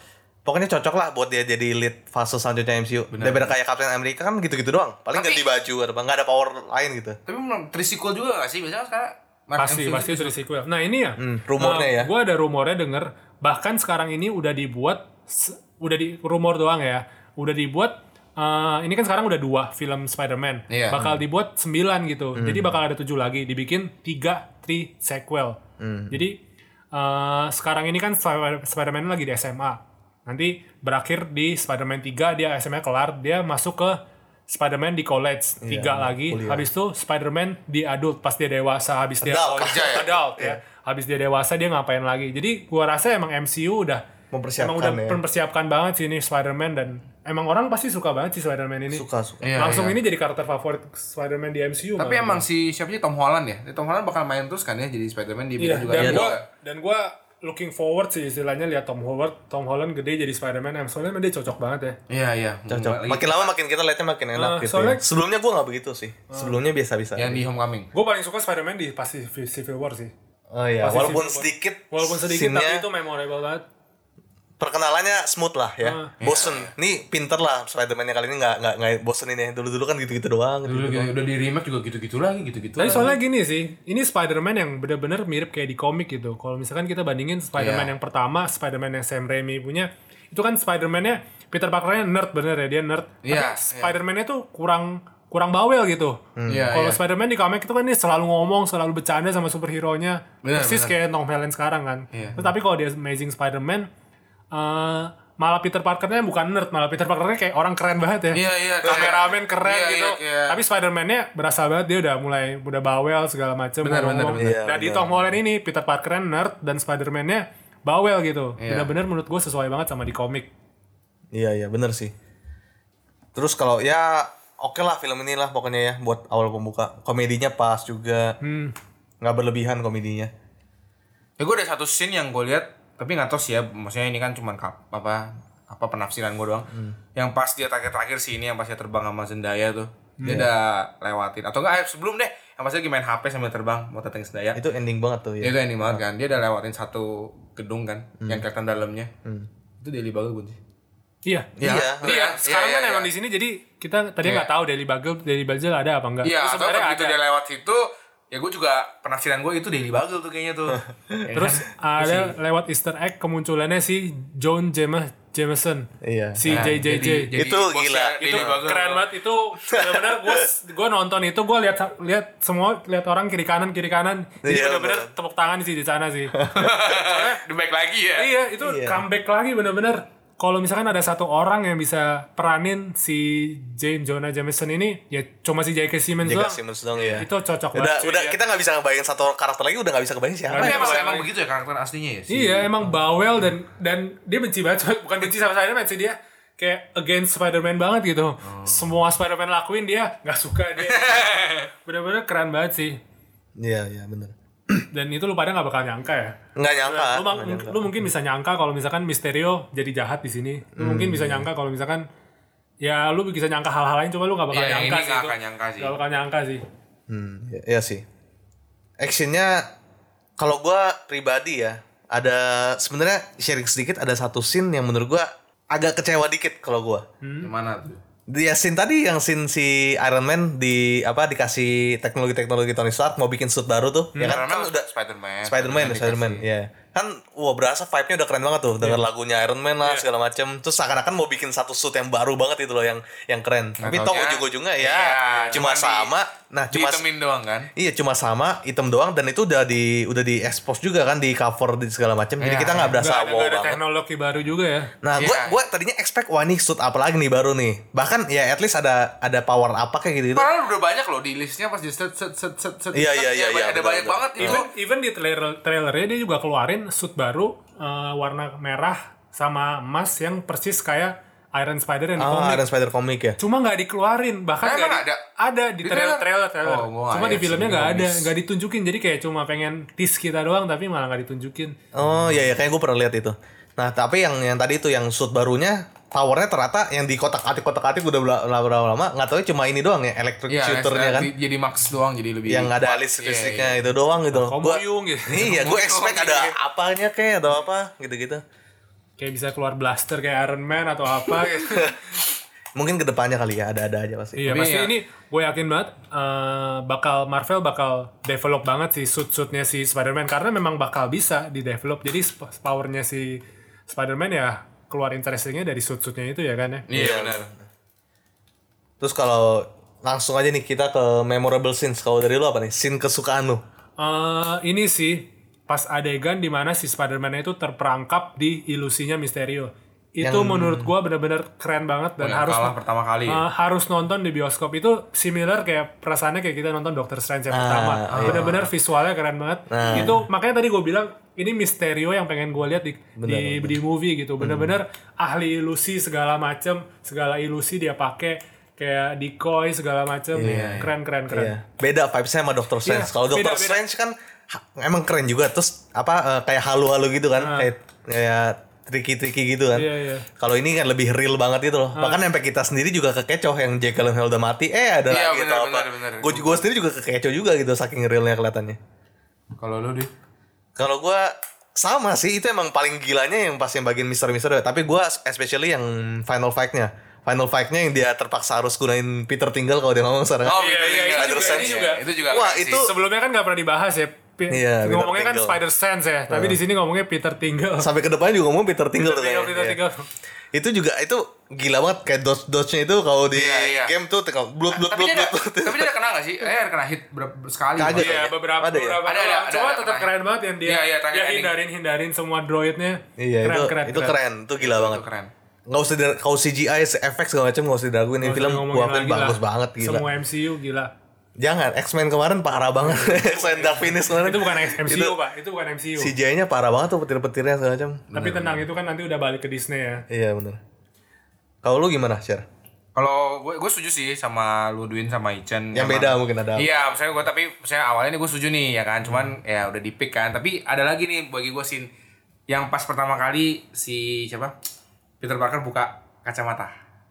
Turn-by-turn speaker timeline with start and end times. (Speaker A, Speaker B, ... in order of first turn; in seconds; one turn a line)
Speaker A: 0.4-7.2
Speaker B: 3.1-3.5
Speaker B: 5.1-5.5
Speaker B: 7.2-10.3
Speaker C: 9.6-25.6
Speaker A: 11.2-12.1
Speaker B: 20.7-21.0
Speaker A: 20.9-21.2
Speaker A: 22.4-22.7
Speaker A: 25.8-26.2
Speaker C: 26.1-26.4
Speaker C: 26.9-44.0
Speaker A: 35.6-36.7
Speaker A: 39.2-40.6
Speaker B: 39.6-40.1
Speaker A: 44.3-45.2
Speaker C: 44.6-49.0
Speaker A: 48.9-49.8
Speaker B: 49.4-50.0
Speaker C: 49.5-52.4
Speaker B: 52.0-56.4
Speaker C: 55.6-62.0
Speaker A: 55.9-56.4
Speaker B: 62.1-63.5
Speaker A: 62.7-67.4
Speaker C: 64.3-65.0
Speaker C: 66.3-66.6
Speaker B: 67.2-67.9
Speaker C: 67.9-70.1
Speaker A: 70.5-72.8
Speaker C: 70.8-73.6
Speaker A: 74.6-81.1
Speaker C: 75.8-76.1
Speaker B: 76.2-76.7
Speaker B: 80.7-83.2
Speaker C: 82.8-103.9
Speaker B: 87.5-87.9
Speaker B: 93.2-94.0
Speaker A: 96.3-96.7
Speaker B: 96.5-97.0
Speaker B: 100.4-100.9
Speaker B: 102.1-102.4
Speaker C: 104.5-120.5
Speaker B: 108.3-110.6
Speaker B: 113.8-114.5
Speaker A: 114.4-115.3
Speaker B: 118.6-118.9
Speaker A: 121.3-122.1
Speaker A: 123.3-128.4
Speaker C: 128.4-128.7
Speaker A: 129.2-130.3
Speaker B: 131.4-144.6
Speaker C: 140.2-140.5
Speaker A: 140.2-140.5
Speaker A: 144.5-146.0
Speaker B: 145.4-149.1
Speaker B: 149.8-150.6
Speaker C: 151.2-157.2
Speaker A: 151.6-152.2
Speaker B: 151.6-153.1
Speaker B: 154.2-154.5
Speaker B: 156.2-162.3
Speaker A: 160.7-161.3
Speaker C: 161.3-167.3
Speaker A: 166.0-166.7
Speaker B: 166.5-169.1
Speaker A: 167.3-168.6
Speaker C: 168.2-177.4
Speaker A: 169.7-170.4
Speaker A: 174.4-175.1
Speaker A: 176.3-176.7
Speaker B: 176.5-178.3
Speaker C: 178.2-186.6
Speaker A: 178.6-179.0
Speaker A: 186.2-191.0
Speaker B: 186.9-187.2
Speaker C: 187.2-188.4
Speaker C: 190.5-191.3
Speaker B: 190.6-192.8
Speaker C: 192.3-201.3
Speaker B: 198.4-198.9
Speaker B: 200.8-201.7
Speaker C: 201.8-203.0
Speaker A: 203.6-204.9
Speaker C: 204.9-212.0
Speaker A: 206.6-207.9
Speaker A: 210.8-211.5
Speaker C: 212.8-216.6
Speaker B: 214.5-215.9
Speaker A: 217.1-218.0
Speaker A: 219.0-219.7
Speaker A: 220.4-227.0
Speaker C: 227.2-227.5
Speaker B: 227.4-228.0
Speaker A: 228.3-234.9
Speaker B: 234.2-236.4
Speaker A: 235.4-247.0
Speaker B: 243.8-246.1
Speaker B: 246.7-247.7
Speaker A: 247.8-253.8
Speaker B: 252.4-253.0
Speaker C: 252.9-254.9
Speaker A: 255.0-260.5
Speaker B: 255.2-255.6
Speaker B: 260.3-264.7
Speaker A: 262.9-264.6
Speaker C: 264.4-272.6
Speaker A: 272.2-273.4
Speaker C: 273.4-281.8
Speaker B: 274.6-275.2
Speaker B: 275.8-278.3
Speaker A: 281.9-291.3
Speaker B: 282.0-282.5
Speaker B: 290.5-293.8
Speaker A: 292.5-298.4
Speaker C: 294.3-295.6
Speaker B: 295.4-296.5
Speaker C: 299.2-302.0
Speaker A: 301.6-302.1
Speaker A: 302.7-304.6
Speaker C: 304.4-316.9
Speaker B: 304.5-304.9
Speaker B: 316.9-317.5
Speaker A: 316.9-317.6
Speaker A: 319.0-323.6
Speaker C: 324.0-332.7
Speaker A: 330.2-330.9
Speaker B: 332.2-333.4
Speaker C: 333.3-351.5
Speaker A: 337.5-338.5
Speaker B: 338.1-338.7
Speaker A: 339.7-340.2
Speaker A: 343.2-343.8
Speaker A: 344.4-344.8
Speaker A: 350.3-368.8
Speaker B: 350.4-350.9
Speaker C: 352.8-353.8
Speaker C: 357.4-357.7
Speaker C: 359.7-360.2
Speaker C: 361.9-362.2
Speaker B: 365.1-366.6
Speaker B: 369.6-370.1
Speaker A: 370.8-382.9
Speaker B: 380.4-382.9
Speaker C: 380.5-382.0
Speaker C: 382.8-387.9
Speaker A: 384.5-385.6
Speaker A: 386.3-386.6
Speaker A: 387.8-389.8
Speaker C: 389.0-390.1
Speaker A: 390.5-395.9
Speaker B: 393.3-393.9
Speaker B: 394.7-398.3
Speaker A: 397.8-399.0
Speaker C: 397.9-404.1
Speaker B: 399.1-400.1
Speaker B: 400.6-401.6
Speaker A: 403.2-405.0
Speaker B: 404.6-405.3
Speaker A: 405.7-410.0
Speaker C: 408.2-410.9
Speaker A: 411.4-415.1
Speaker C: 412.8-416.1
Speaker A: 416.0-418.0
Speaker B: 418.1-418.6
Speaker C: 418.1-420.0
Speaker A: 420.1-420.6
Speaker A: 421.6-422.4
Speaker B: 422.9-431.9
Speaker A: 425.7-426.7
Speaker A: 429.0-429.3
Speaker B: 432.5-434.5
Speaker B: 435.2-436.7